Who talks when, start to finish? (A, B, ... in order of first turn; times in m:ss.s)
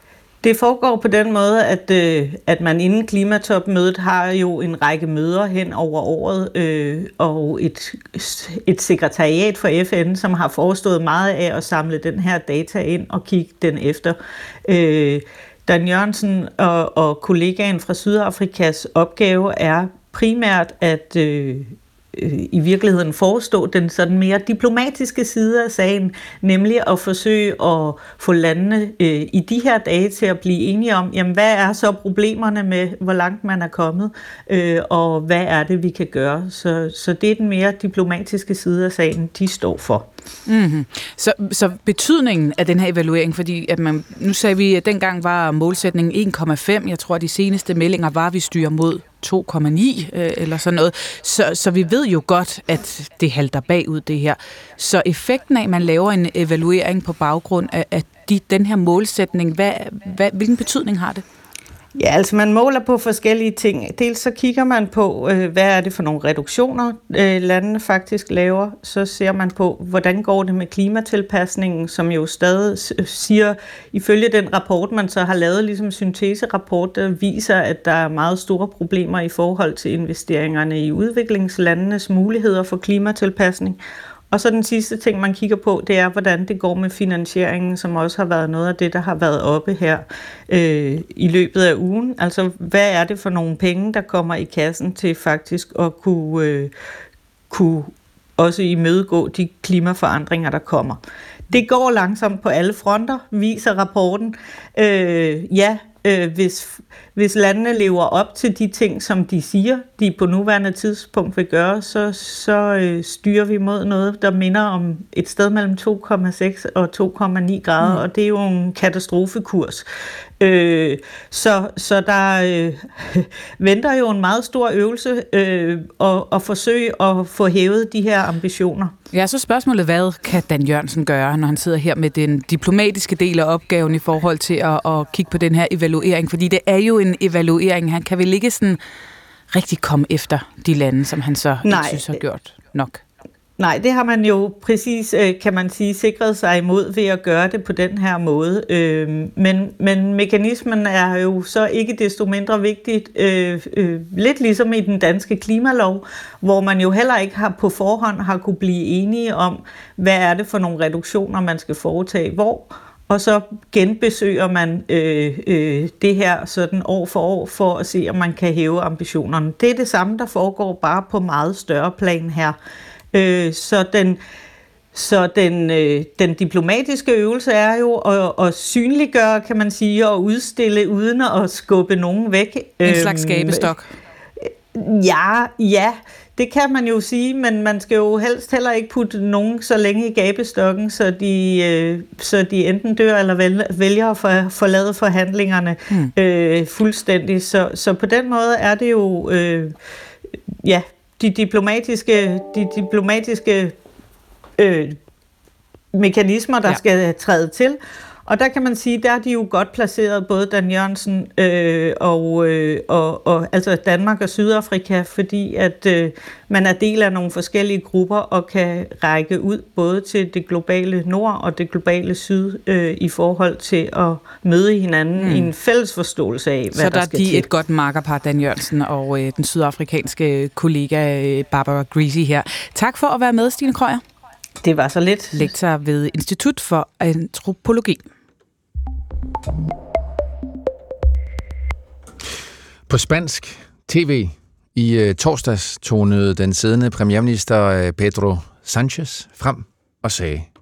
0:00.4-0:40.1 A
0:40.4-1:01.2 B
1:02.0-1:23.8 A
1:24.3-1:36.7 A
1:37.5-1:59.9 A
2:00.4-2:08.9 A
2:09.1-2:18.8 B
2:19.5-2:23.0 B
2:21.6-2:22.2 A
2:23.6-2:52.6 A
2:53.1-2:54.2 A
2:54.9-3:03.7 A
3:02.8-3:03.9 B
3:04.4-3:19.8 A
3:20.6-3:23.7 A
3:24.6-3:25.0 A
3:25.9-3:47.5 A
3:45.2-3:45.5 B
3:46.7-3:54.0 B
3:54.6-3:55.5 A
3:55.3-3:58.0 B
4:02.9-4:10.5 C